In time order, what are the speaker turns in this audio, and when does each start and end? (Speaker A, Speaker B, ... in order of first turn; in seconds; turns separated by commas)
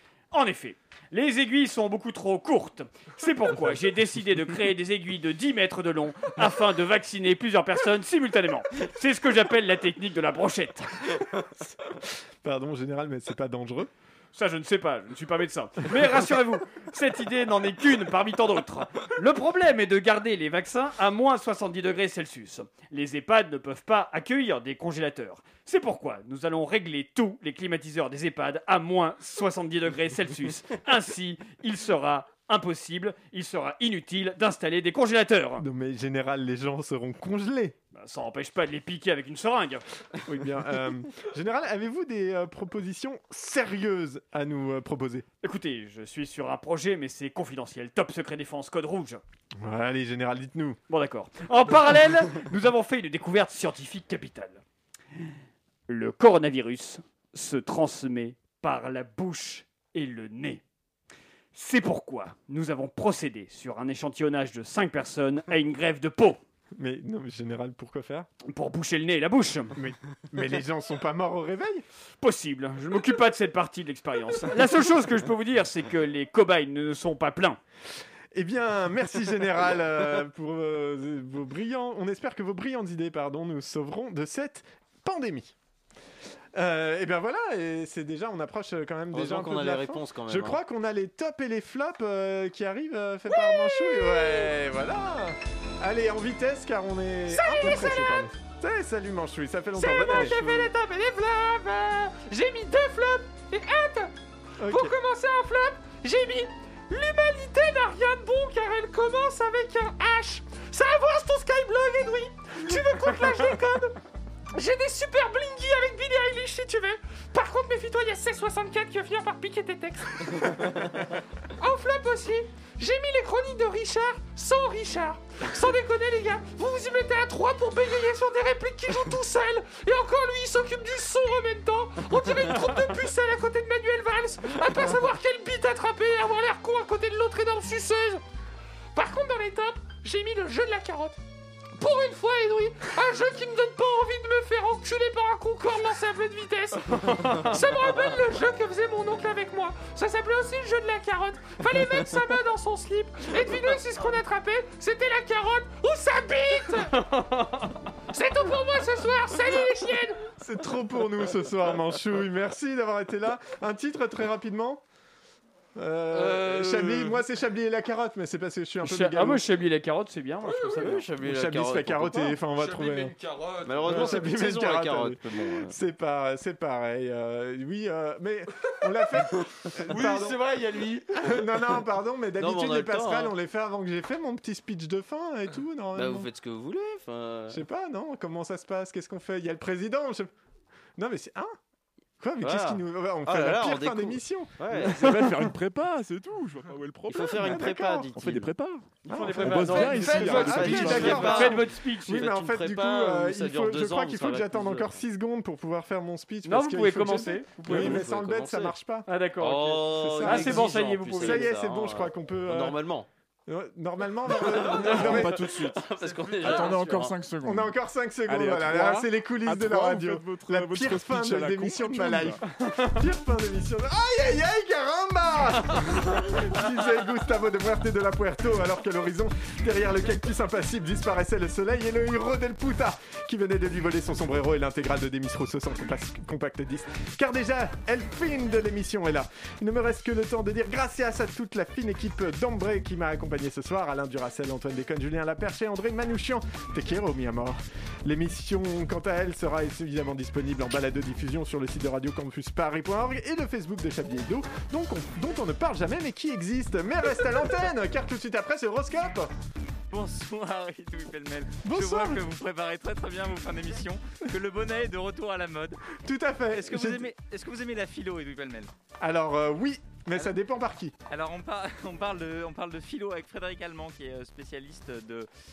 Speaker A: 0.3-11.0, Speaker B: 12.4-13.9, Speaker A: 14.3-35.6, Speaker B: 35.6-37.8, Speaker A: 37.9-39.9, Speaker B: 40.3-45.2, Speaker A: 45.4-49.2, Speaker B: 49.6-50.8, Speaker A: 50.9-54.6, Speaker A: 55.9-60.6, Speaker A: 61.5-66.4, Speaker B: 66.8-68.3, Speaker A: 68.5-69.7, Speaker B: 69.8-71.8, Speaker A: 72.2-77.6, Speaker B: 78.3-85.5, Speaker B: 86.5-100.4, Speaker C: 89.1-90.6, Speaker D: 93.3-94.5, Speaker D: 97.3-98.3, Speaker D: 99.7-104.1, Speaker B: 104.6-104.9, Speaker D: 104.7-114.0, Speaker D: 114.5-138.2, Speaker D: 138.9-141.2, Speaker D: 141.8-157.0, Speaker A: 157.1-157.7, Speaker D: 158.1-160.2, Speaker B: 160.3-164.8, Speaker B: 165.8-169.4, Speaker E: 166.1-167.2, Speaker A: 168.8-171.1, Speaker E: 170.5-170.8, Speaker C: 170.8-172.4, Speaker B: 171.2-173.1, Speaker E: 172.6-174.3, Speaker C: 173.7-175.8, Speaker B: 173.8-180.4, Speaker E: 179.9-181.4, Speaker B: 181.1-186.3, Speaker C: 182.4-183.3, Speaker C: 185.9-187.6, Speaker B: 187.5-190.3, Speaker B: 191.0-191.6, Speaker B: 192.2-195.1, Speaker C: 192.4-195.3, Speaker F: 194.8-201.4, Speaker C: 197.1-198.5, Speaker A: 199.0-202.3, Speaker B: 199.1-209.1, Speaker E: 200.0-201.5, Speaker C: 200.3-205.0, Speaker A: 206.4-207.9, Speaker C: 207.7-208.8, Speaker A: 209.1-211.5, Speaker C: 209.4-213.1, Speaker B: 209.8-212.8, Speaker B: 213.5-215.5, Speaker C: 214.3-217.2, Speaker F: 214.6-217.8, Speaker B: 217.4-259.3, Speaker F: 218.3-222.4, Speaker G: 259.9-265.8, Speaker B: 261.6-262.2, Speaker B: 266.0-267.1, Speaker G: 266.5-268.7, Speaker B: 269.0-270.9, Speaker G: 271.1-275.3